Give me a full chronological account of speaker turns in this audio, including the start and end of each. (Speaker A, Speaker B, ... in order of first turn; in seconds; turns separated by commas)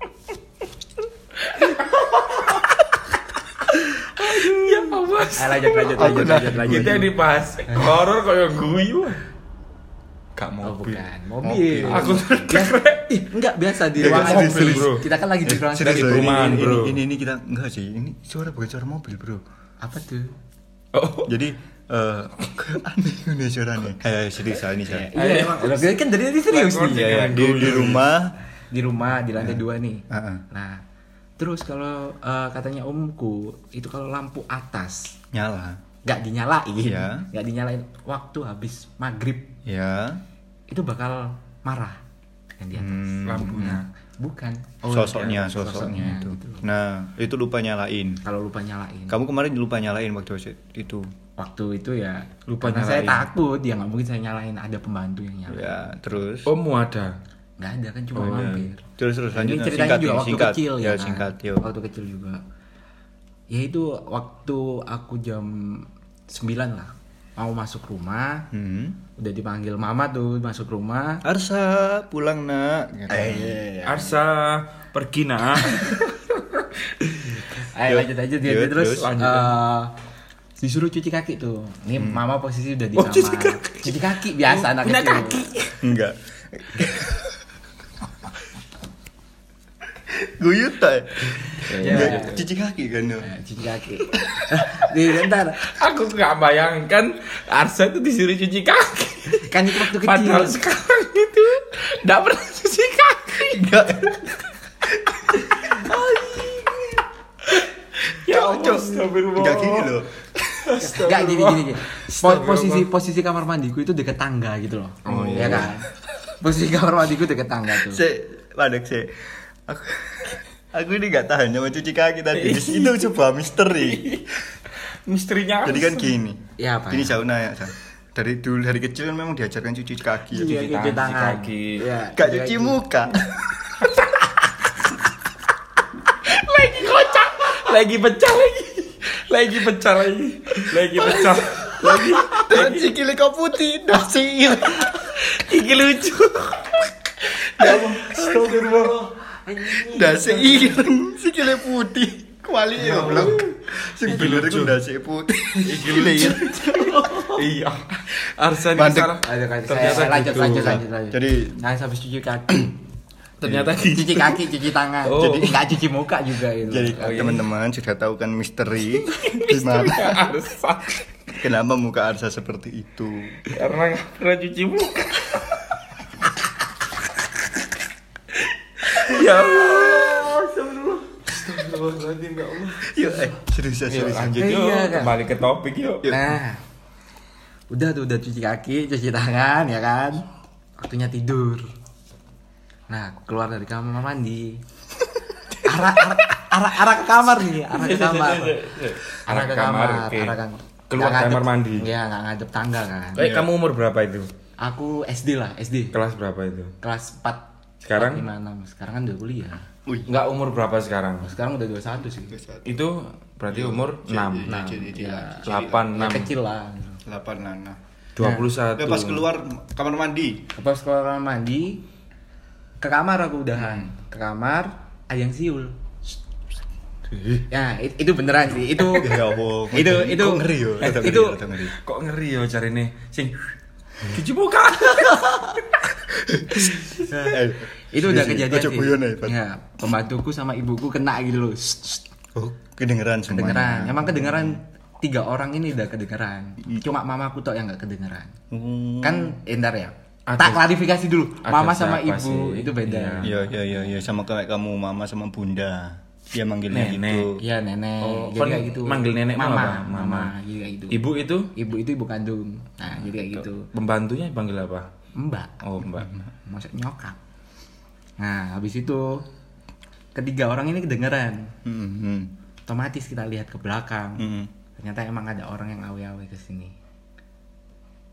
Speaker A: 1.4-2.7, Speaker A: 4.2-9.2, Speaker B: 4.2-4.8, Speaker B: 5.3-7.1, Speaker C: 6.0-7.1, Speaker B: 7.7-8.0, Speaker C: 10.4-12.3, Speaker B: 10.6-16.6, Speaker A: 11.8-13.2, Speaker C: 13.9-19.4, Speaker A: 14.0-15.1, Speaker A: 15.8-17.0, Speaker B: 19.8-20.3, Speaker A: 20.9-21.3, Speaker C: 21.2-25.1, Speaker B: 24.8-27.4, Speaker A: 25.1-25.9, Speaker A: 26.4-28.0, Speaker C: 26.9-28.3, Speaker B: 28.7-30.8, Speaker C: 29.4-30.4, Speaker B: 31.4-35.1, Speaker C: 35.3-35.8, Speaker B: 36.0-39.5, Speaker C: 36.8-37.3, Speaker C: 39.6-40.2, Speaker B: 40.7-42.0, Speaker B: 42.6-46.6, Speaker C: 42.7-43.8, Speaker A: 43.2-43.9, Speaker C: 44.8-48.2, Speaker A: 44.9-45.2, Speaker B: 48.2-49.2, Speaker C: 49.1-51.1, Speaker B: 51.4-55.9, Speaker A: 52.5-53.3, Speaker C: 55.5-56.5, Speaker A: 56.5-57.2, Speaker B: 57.6-62.4, Speaker A: 58.1-58.7, Speaker C: 59.0-61.6, Speaker B: 63.5-68.5, Speaker C: 68.5-69.0, Speaker B: 69.2-71.2, Speaker C: 71.2-73.7, Speaker B: 73.1-74.2, Speaker A: 73.8-77.4, Speaker B: 77.5-79.9, Speaker C: 77.8-79.1, Speaker A: 78.9-79.6, Speaker B: 80.6-85.7, Speaker C: 82.0-82.2, Speaker A: 83.0-85.7, Speaker C: 85.8-87.4, Speaker C: 90.1-93.3, Speaker A: 91.7-92.4, Speaker B: 91.8-92.4, Speaker B: 93.2-95.6, Speaker A: 95.6-103.8, Speaker B: 99.3-100.6, Speaker C: 103.5-104.3, Speaker A: 105.7-106.8, Speaker A: 107.5-112.9, Speaker C: 108.2-110.1, Speaker B: 110.8-115.9, Speaker C: 115.0-115.8, Speaker A: 115.3-115.7, Speaker B: 116.4-118.0, Speaker C: 117.8-124.1, Speaker A: 122.3-123.1, Speaker A: 123.7-126.2, Speaker C: 125.6-130.6, Speaker B: 126.6-127.2, Speaker B: 130.3-132.8, Speaker A: 130.3-131.8, Speaker C: 132.1-133.1, Speaker A: 133.8-134.7, Speaker A: 136.2-142.9, Speaker B: 141.1-142.4, Speaker C: 142.1-145.0, Speaker A: 144.8-148.9, Speaker B: 147.6-150.9, Speaker C: 147.6-148.9, Speaker C: 149.7-156.8, Speaker A: 152.8-154.8, Speaker B: 152.9-153.4, Speaker A: 155.6-160.8, Speaker B: 156.1-157.4, Speaker C: 158.7-159.2, Speaker B: 159.2-162.8, Speaker C: 160.6-161.6, Speaker A: 163.4-165.8, Speaker C: 163.4-163.7, Speaker B: 163.8-167.3, Speaker C: 165.2-165.6, Speaker C: 166.6-170.3, Speaker A: 167.0-167.4, Speaker A: 169.0-171.3, Speaker C: 171.3-173.4, Speaker A: 173.5-175.8, Speaker A: 178.8-180.4, Speaker B: 179.1-183.3, Speaker A: 181.3-182.8, Speaker C: 182.8-184.8, Speaker A: 183.8-186.2, Speaker B: 184.4-185.2, Speaker B: 186.1-186.6, Speaker B: 187.7-190.2, Speaker B: 190.8-191.7, Speaker B: 192.9-194.6, Speaker B: 195.6-198.7, Speaker A: 197.7-200.4, Speaker B: 199.2-203.2, Speaker A: 200.9-201.9, Speaker A: 203.1-204.3, Speaker C: 203.2-203.5, Speaker B: 204.6-205.9, Speaker A: 205.9-206.7, Speaker B: 206.8-207.4, Speaker A: 207.8-208.3, Speaker B: 208.0-209.7, Speaker A: 210.1-211.3, Speaker B: 211.2-212.3, Speaker C: 212.3-212.8, Speaker A: 212.6-214.9, Speaker C: 213.5-215.9, Speaker B: 214.4-217.0, Speaker A: 215.4-216.3, Speaker C: 217.0-217.8, Speaker A: 218.2-219.3, Speaker B: 218.2-218.5, Speaker C: 218.8-220.5, Speaker B: 220.5-221.8, Speaker B: 222.8-225.8, Speaker C: 223.6-223.9, Speaker C: 227.1-227.4, Speaker B: 227.5-231.4, Speaker C: 228.8-231.7, Speaker A: 230.9-233.3, Speaker A: 234.0-235.7, Speaker C: 236.3-239.4, Speaker A: 236.6-237.0, Speaker B: 237.0-242.0, Speaker C: 242.3-244.6, Speaker B: 243.3-248.3, Speaker C: 248.5-249.3, Speaker B: 249.0-253.3, Speaker A: 250.3-250.8, Speaker A: 251.4-253.5, Speaker C: 253.2-257.4, Speaker A: 256.7-257.4, Speaker B: 257.4-261.0, Speaker A: 258.0-260.3, Speaker A: 260.9-261.5, Speaker B: 261.5-263.7, Speaker A: 263.3-264.9, Speaker B: 265.1-265.6, Speaker A: 265.6-266.1, Speaker C: 265.9-266.2, Speaker B: 266.4-267.2, Speaker B: 268.2-269.2, Speaker B: 270.1-271.5, Speaker C: 271.6-272.3, Speaker B: 272.7-274.2, Speaker C: 274.2-274.5, Speaker B: 274.8-276.8